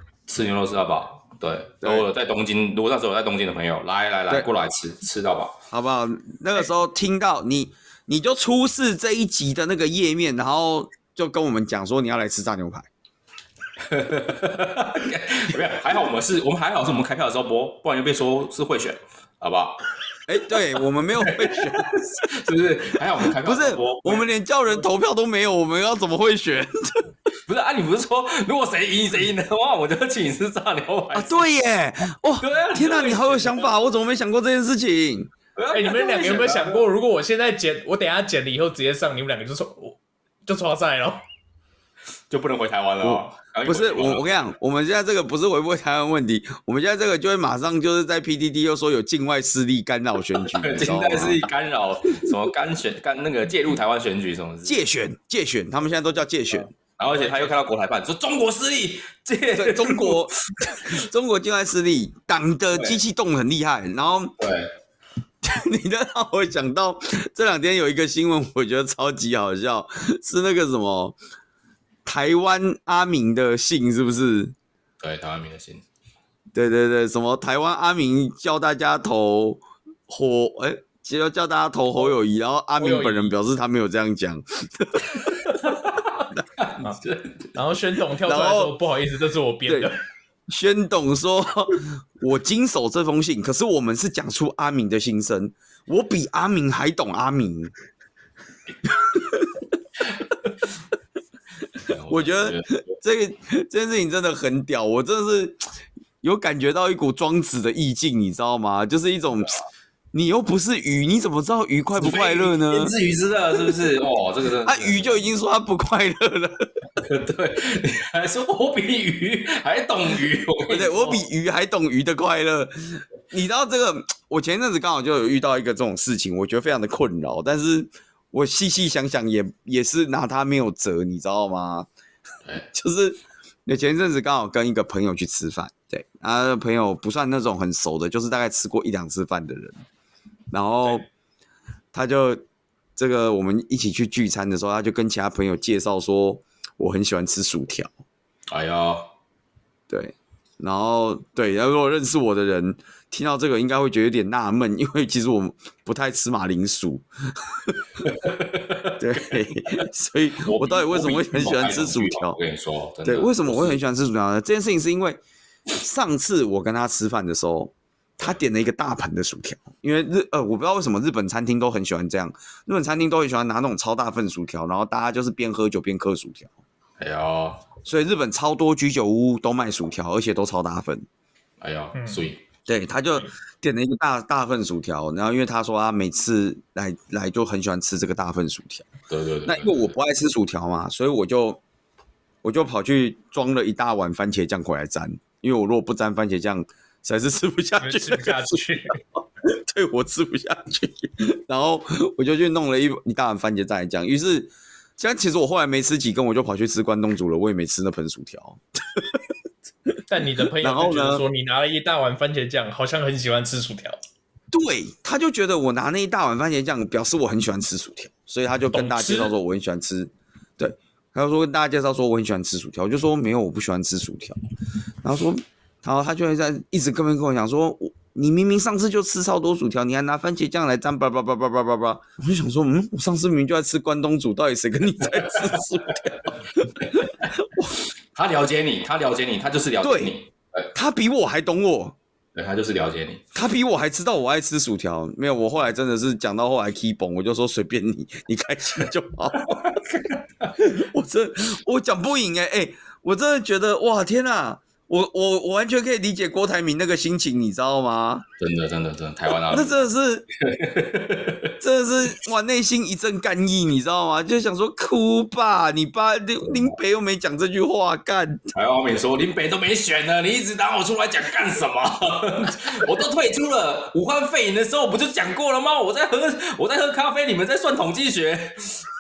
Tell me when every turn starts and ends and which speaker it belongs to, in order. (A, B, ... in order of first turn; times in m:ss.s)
0:00.3-0:05.5 A
0:05.7-0:12.9 B
0:13.9-0:19.8 A
0:20.3-0:21.9 B
0:21.2-0:24.3 A
0:23.3-0:27.1 B
0:27.5-0:31.5 A
0:31.1-0:35.3 B
0:32.4-0:33.7 A
0:35.6-0:36.8 A
0:35.7-0:41.2 C
0:42.3-0:44.5 A
0:43.0-0:51.5 B
0:50.4-0:54.8 A
0:54.6-0:56.7 B
0:57.0-1:00.8 A
0:59.6-1:04.4 B
1:02.7-1:03.0 A
1:04.4-1:04.7 A
1:05.4-1:11.2 B
1:12.0-1:14.6 B
1:15.0-1:15.8 A
1:16.5-1:25.4 B
1:22.8-1:23.4 C
1:25.5-1:27.5 A
1:27.6-1:30.0 C
1:28.2-1:28.8 B
1:30.5-1:37.7 B
1:39.1-1:39.6 B
1:41.8-1:42.9 A
1:42.1-1:45.6 B
1:46.2-1:49.6 B
1:50.1-1:52.9 B
1:52.0-1:55.2 A
1:54.6-1:56.7 B
1:57.0-2:01.3 A
2:00.7-2:11.9 B
2:12.7-2:19.8 B
2:20.5-2:21.1 B
2:21.9-2:22.4 B
2:23.0-2:27.9 B
2:28.5-2:29.1 A
2:29.9-2:38.0 B
2:38.0-2:39.0 A
2:39.0-2:42.4 B
2:40.4-2:43.8 A
2:43.0-2:56.5 B
2:57.0-2:57.6 A
2:57.8-3:01.1 B
3:01.6-3:02.4 A
3:02.0-3:02.2 C
3:02.7-3:08.9 B
3:09.1-3:09.9 A
3:09.5-3:11.6 B
3:12.4-3:18.6 B
3:17.8-3:19.0 C
3:19.2-3:29.2 B
3:30.1-3:34.0 C
3:30.6-3:31.2 B
3:34.5-3:44.4 B
3:38.7-3:39.3 C
3:45.0-3:57.8 B
3:55.1-3:55.9 A
3:56.8-3:57.3 A
3:58.1-4:00.7 A
3:59.8-4:00.1 B
4:00.7-4:02.0 B
4:02.4-4:03.2 A
4:03.3-4:09.8 B
4:09.5-4:10.5 A
4:10.6-4:18.2 B
4:18.4-4:21.5 A
4:19.4-4:20.3 B
4:21.6-4:28.4 B
4:28.5-4:38.8 A